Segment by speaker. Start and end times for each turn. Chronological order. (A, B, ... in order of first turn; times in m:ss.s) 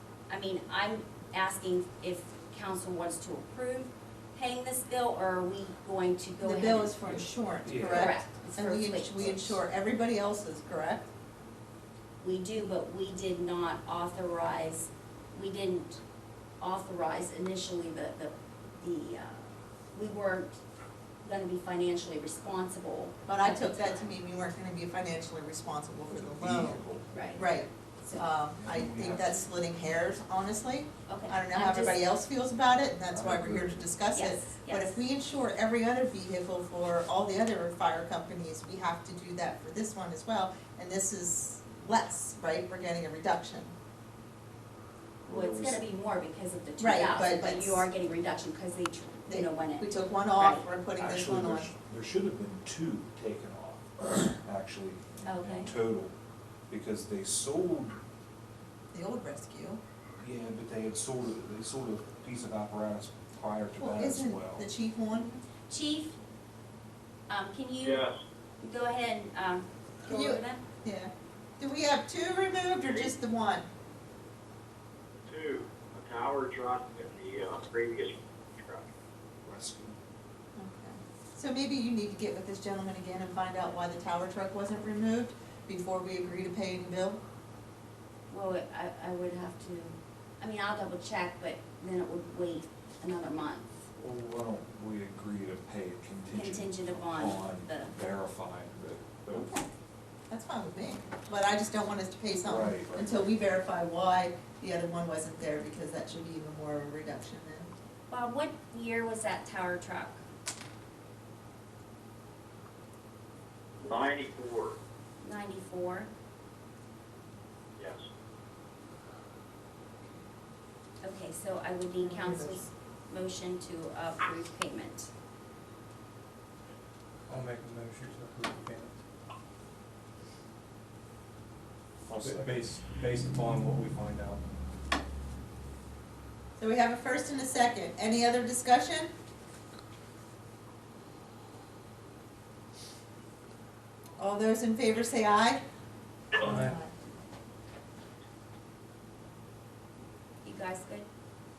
0:00.3-0:07.2 A
0:06.4-0:11.1 B
0:07.1-0:08.2 C
0:07.8-0:09.6 A
0:12.2-0:16.0 A
0:16.6-0:20.6 A
0:21.2-0:24.1 A
0:23.3-0:26.8 B
0:26.1-0:27.1 C
0:27.1-0:27.4 A
0:27.4-0:43.7 B
0:28.5-0:29.5 C
0:31.1-0:32.1 A
0:33.1-0:33.9 C
0:34.1-0:35.0 A
0:45.3-0:50.7 A
0:45.3-0:45.8 C
0:46.8-0:47.9 B
0:49.3-0:51.7 B
0:51.0-0:56.1 C
0:55.2-0:55.7 A
0:56.7-0:58.0 C
0:58.9-0:59.8 B
1:00.2-1:04.7 C
1:03.8-1:05.3 B
1:05.1-1:06.2 A
1:07.3-1:08.1 A
1:07.8-1:08.2 D
1:08.6-1:10.6 A
1:10.1-1:13.7 B
1:15.3-1:18.9 D
1:19.4-1:20.0 C
1:20.6-1:27.2 B
1:28.3-1:33.8 A
1:34.0-1:39.5 C
1:36.3-1:38.0 A
1:39.3-1:39.7 B
1:40.3-1:47.7 B
1:42.4-1:43.3 C
1:48.1-1:50.2 A
1:53.8-1:54.8 D
1:55.2-1:56.1 A
1:57.8-1:58.1 D
2:01.0-2:05.1 A
2:02.0-2:02.6 B
2:07.3-2:09.0 E
2:12.2-2:14.4 E
2:16.6-2:19.1 B
2:24.2-2:25.6 B
2:26.4-2:26.9 B
2:26.4-2:26.8 E
2:30.4-2:31.1 A